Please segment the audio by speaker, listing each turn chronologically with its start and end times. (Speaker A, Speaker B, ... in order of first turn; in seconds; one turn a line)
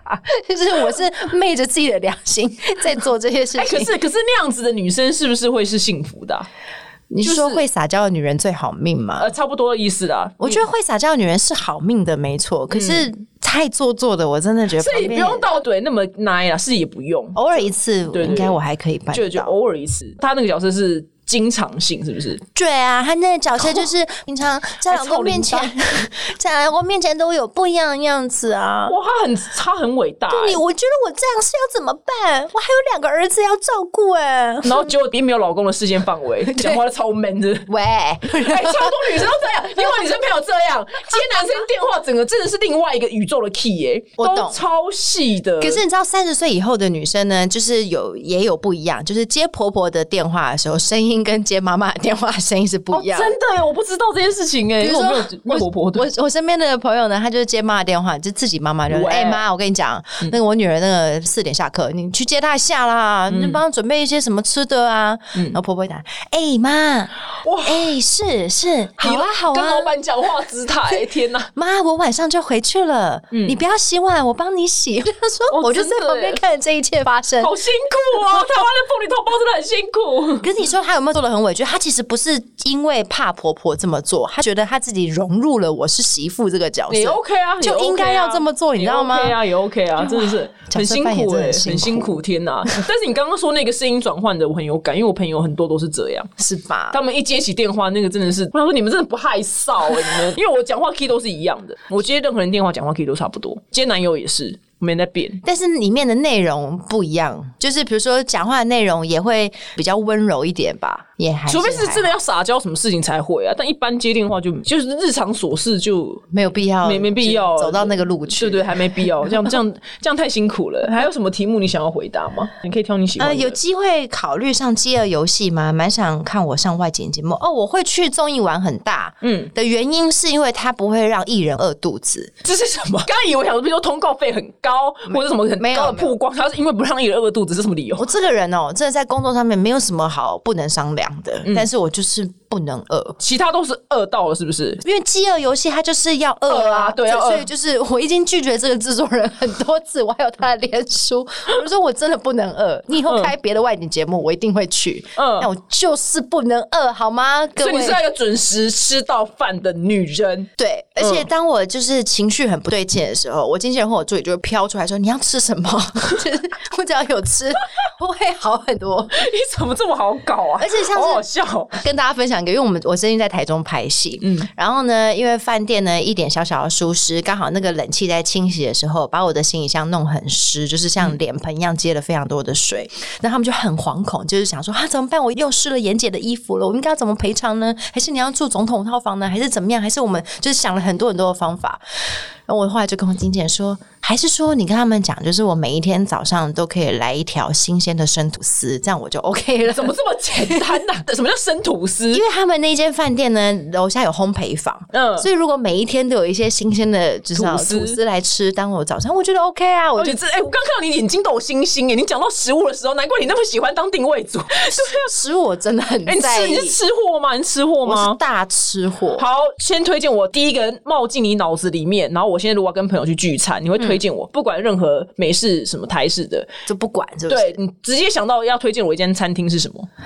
Speaker A: 0.2-3.9
Speaker B: 3.5-6.5
Speaker A: 7.1-9.3
Speaker B: 7.2-7.6
Speaker B: 9.2-10.6
Speaker A: 10.4-15.4
Speaker B: 12.7-13.1
Speaker B: 14.8-18.6
Speaker A: 17.3-19.5
Speaker B: 19.1-22.4
Speaker A: 22.5-29.0
Speaker B: 23.6-23.9
Speaker B: 24.9-25.8
Speaker B: 28.9-30.6
Speaker A: 30.3-34.9
Speaker B: 34.6-37.7
Speaker A: 36.5-36.8
Speaker A: 37.7-39.2
Speaker B: 38.2-45.8
Speaker A: 44.2-44.6
Speaker A: 45.6-53.4
Speaker B: 52.9-56.1
Speaker A: 54.8-69.9
Speaker B: 58.9-59.4
Speaker B: 63.3-63.6
Speaker B: 67.4-67.9
Speaker B: 69.0-71.5
Speaker A: 71.5-77.5
Speaker B: 73.3-73.6
Speaker B: 75.5-76.4
Speaker B: 77.4-80.5
Speaker A: 78.3-78.5
Speaker A: 80.4-89.4
Speaker B: 86.9-96.3
Speaker A: 90.0-92.2
Speaker A: 96.4-97.0
Speaker B: 96.9-105.4
Speaker A: 105.4-112.1
Speaker B: 111.5-116.2
Speaker A: 116.3-119.1
Speaker B: 116.8-123.6
Speaker A: 123.2-132.3
Speaker B: 129.2-129.5
Speaker B: 132.4-138.1
Speaker A: 135.6-136.1
Speaker A: 138.0-143.2
Speaker B: 143.2-144.8
Speaker A: 144.8-158.0
Speaker B: 146.5-147.5
Speaker B: 153.1-153.3
Speaker B: 155.2-155.5
Speaker B: 157.6-161.3
Speaker A: 160.6-169.2
Speaker B: 169.1-171.7
Speaker A: 170.6-200.8
Speaker B: 174.2-174.5
Speaker B: 199.7-202.2
Speaker A: 202.1-210.2
Speaker B: 204.9-205.3
Speaker B: 207.3-208.0
Speaker B: 210.0-215.0
Speaker A: 214.7-216.8
Speaker B: 216.1-218.2
Speaker A: 217.8-219.2
Speaker B: 219.2-226.5
Speaker A: 226.7-227.6
Speaker B: 227.3-229.9